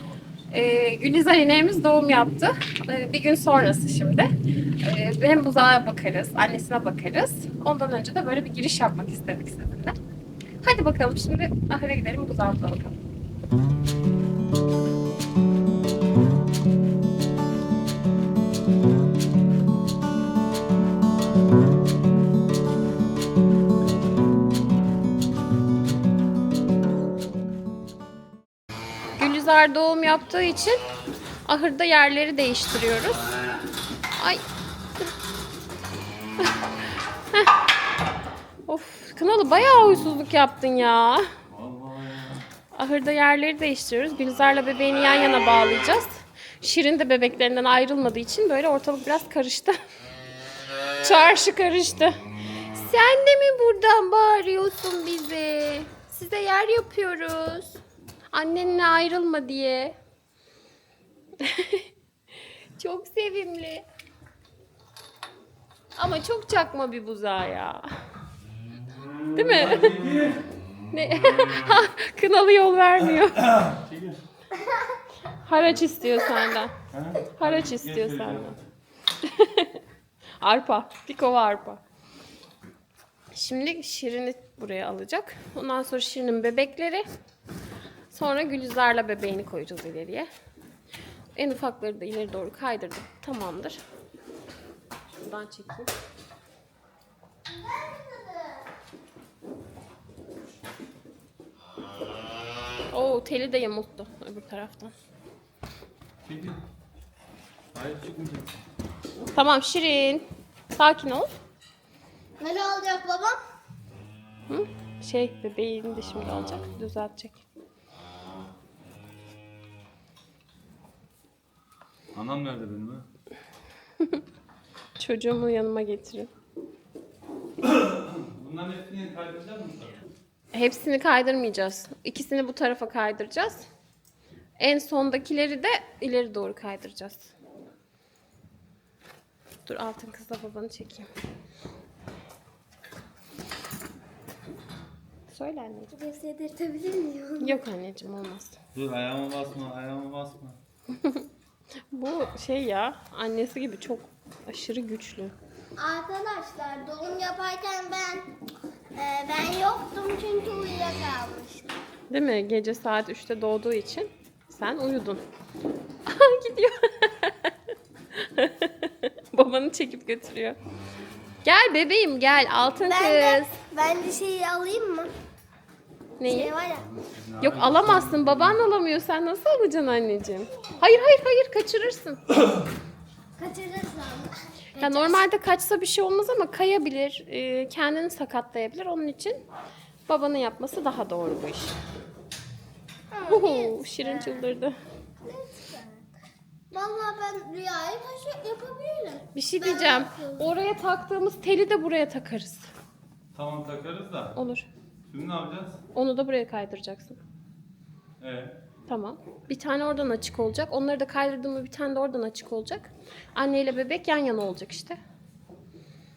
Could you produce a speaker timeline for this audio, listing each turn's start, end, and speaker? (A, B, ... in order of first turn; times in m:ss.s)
0:00.5-0:04.3 A
0:04.8-0:10.0 A
0:10.6-0:13.0 A
0:29.2-0:30.8 A
0:31.5-0:33.2 A
0:34.2-0:34.4 A
0:38.7-0:41.3 A
0:41.5-0:42.4 B
0:42.7-0:49.8 A
0:51.0-0:57.8 A
0:58.3-1:00.0 A
1:01.4-1:01.8 A
1:02.8-1:03.8 A
1:06.0-1:07.8 A
1:09.4-1:10.0 A
1:09.5-1:10.4 B
1:10.9-1:13.6 A
1:13.4-1:14.2 B
1:15.3-1:16.8 A
1:16.9-1:18.6 B
1:17.4-1:18.6 A
1:19.2-1:19.8 A
1:20.4-1:21.8 A
1:23.3-1:27.0 A
1:28.1-1:30.3 A
1:31.4-1:33.8 A
1:35.1-1:35.9 A
1:37.5-1:38.6 C
1:42.9-1:44.9 A
1:46.2-1:46.6 B
1:47.7-1:48.6 B
1:49.3-1:51.3 A
1:52.4-1:53.4 C
1:54.5-1:57.4 A
2:02.1-2:03.1 B
2:05.0-2:06.3 A
2:07.6-2:10.0 B
2:10.5-2:13.7 A
2:14.6-2:17.3 A
2:19.6-2:21.1 A
2:25.3-2:25.9 A
2:25.9-2:27.6 C
2:27.4-2:28.6 A
2:28.7-2:30.6 B
2:30.9-2:31.3 A
2:31.9-2:35.4 A
2:35.8-2:38.3 C
2:39.0-2:41.8 C
2:42.1-2:45.2 A
2:46.1-2:47.5 A
2:48.1-2:50.6 A
2:51.4-2:53.5 A
2:52.8-2:55.1 C
2:56.2-2:56.6 A
2:56.2-2:56.9 C
2:56.7-2:58.6 B
2:57.4-3:02.3 A
3:03.4-3:05.2 C
3:04.8-3:09.4 A
3:10.1-3:11.8 A
3:13.1-3:14.4 C
3:13.3-3:14.8 A
3:15.2-3:16.1 C
3:16.7-3:20.5 C
3:19.4-3:22.7 A
3:23.3-3:24.3 B
3:24.3-3:24.7 A
3:25.1-3:25.8 B
3:25.9-3:27.2 A
3:28.2-3:28.5 B
3:28.9-3:35.0 A